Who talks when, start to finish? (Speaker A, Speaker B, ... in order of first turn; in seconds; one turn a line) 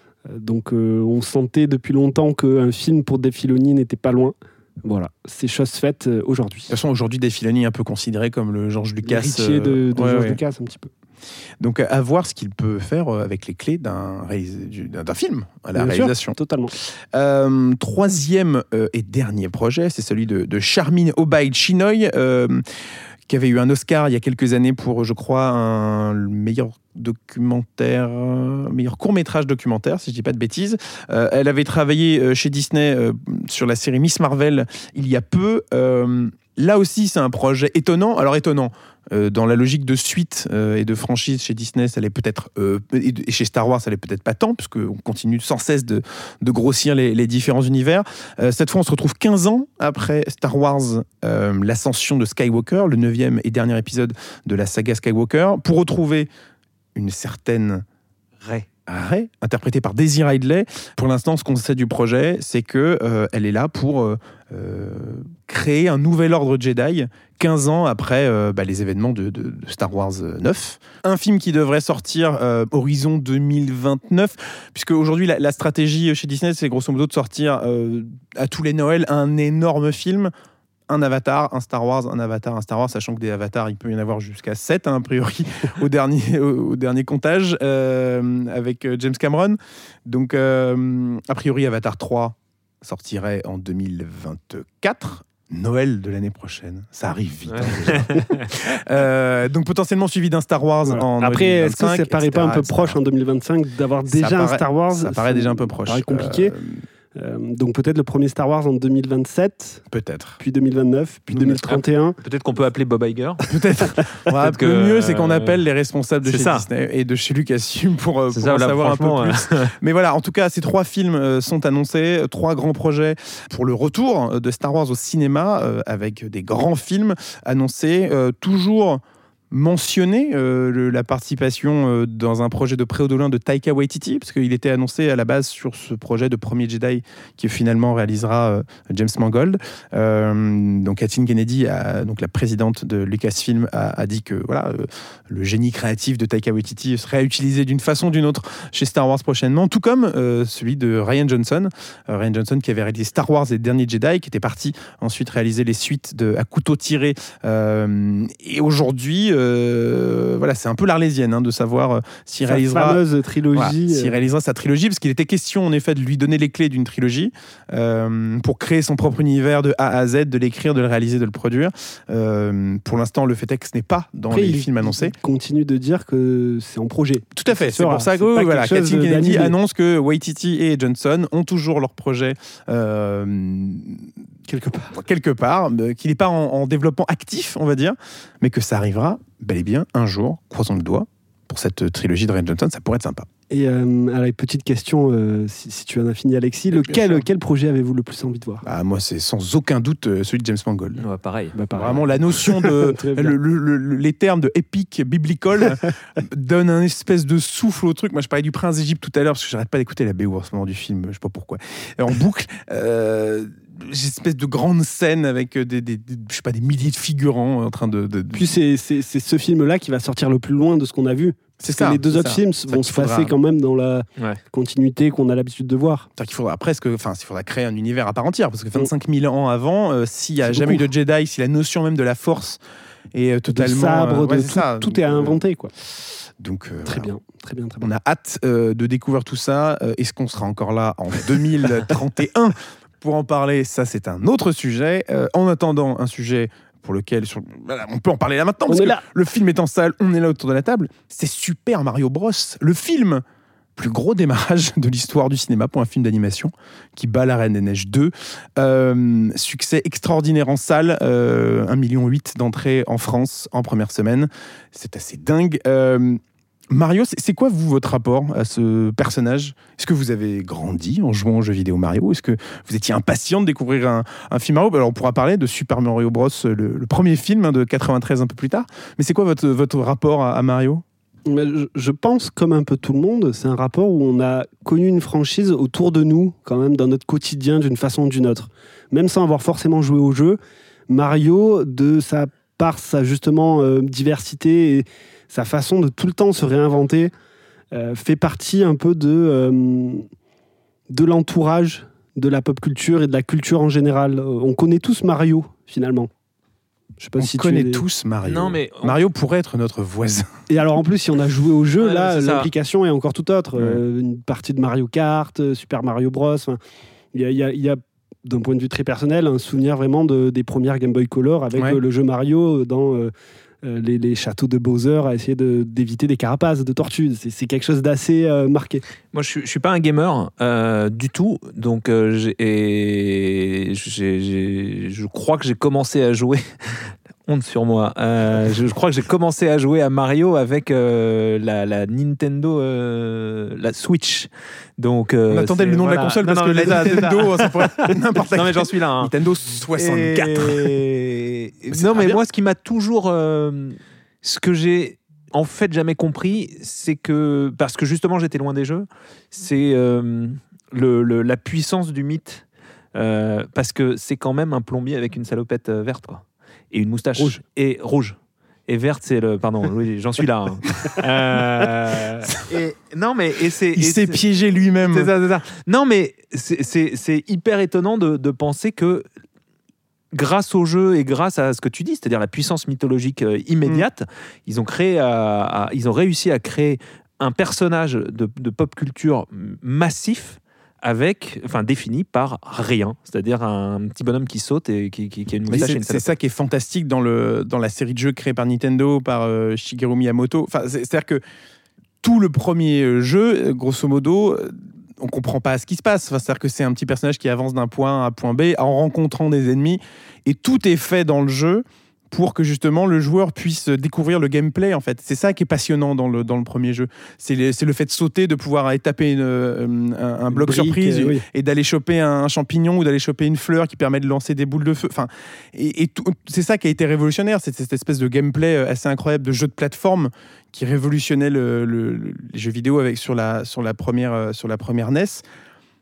Speaker A: 0.2-6.7
Speaker B: 6.7-10.4
Speaker A: 9.0-10.9
Speaker B: 11.6-22.6
Speaker A: 15.7-16.7
Speaker B: 23.3-56.3
Speaker B: 56.9-57.8
Speaker C: 58.4-58.7
Speaker B: 58.9-80.3
Speaker B: 80.9-103.0
Speaker C: 97.5-98.5
Speaker A: 100.8-106.5
Speaker B: 104.1-106.8
Speaker A: 107.1-109.8
Speaker B: 109.9-110.4
Speaker A: 110.4-112.2
Speaker B: 111.3-111.6
Speaker C: 111.5-113.4
Speaker B: 113.5-163.0
Speaker C: 114.3-115.6
Speaker C: 116.2-116.7
Speaker C: 118.3-119.7
Speaker A: 162.5-164.2
Speaker B: 163.5-175.1
Speaker A: 174.3-179.5
Speaker B: 177.3-184.1
Speaker A: 184.5-184.9
Speaker B: 184.9-193.3
Speaker A: 193.5-198.6
Speaker B: 196.8-197.2
Speaker B: 198.6-201.0
Speaker C: 201.0-201.5
Speaker A: 201.5-203.4
Speaker B: 201.7-218.5
Speaker A: 218.3-226.1
Speaker B: 221.6-223.3
Speaker B: 226.2-232.6
Speaker A: 230.4-230.8
Speaker B: 233.1-235.4
Speaker A: 233.5-235.7
Speaker B: 236.4-237.1
Speaker A: 236.8-237.9
Speaker B: 237.8-253.2
Speaker A: 248.7-249.0
Speaker B: 253.8-280.8
Speaker A: 281.2-297.1
Speaker A: 297.7-300.1
Speaker A: 300.9-306.1
Speaker A: 307.0-307.8
Speaker B: 307.2-310.3
Speaker C: 308.2-309.0
Speaker A: 310.5-316.6
Speaker C: 311.8-312.5
Speaker A: 317.1-323.1
Speaker A: 323.6-328.8
Speaker C: 329.1-349.1
Speaker B: 345.3-350.7
Speaker C: 349.7-362.4
Speaker B: 351.7-352.2
Speaker C: 362.9-374.2
Speaker B: 373.7-375.1
Speaker C: 374.8-379.0
Speaker C: 380.1-396.1
Speaker B: 395.5-401.2
Speaker B: 402.0-435.2
Speaker A: 420.3-421.2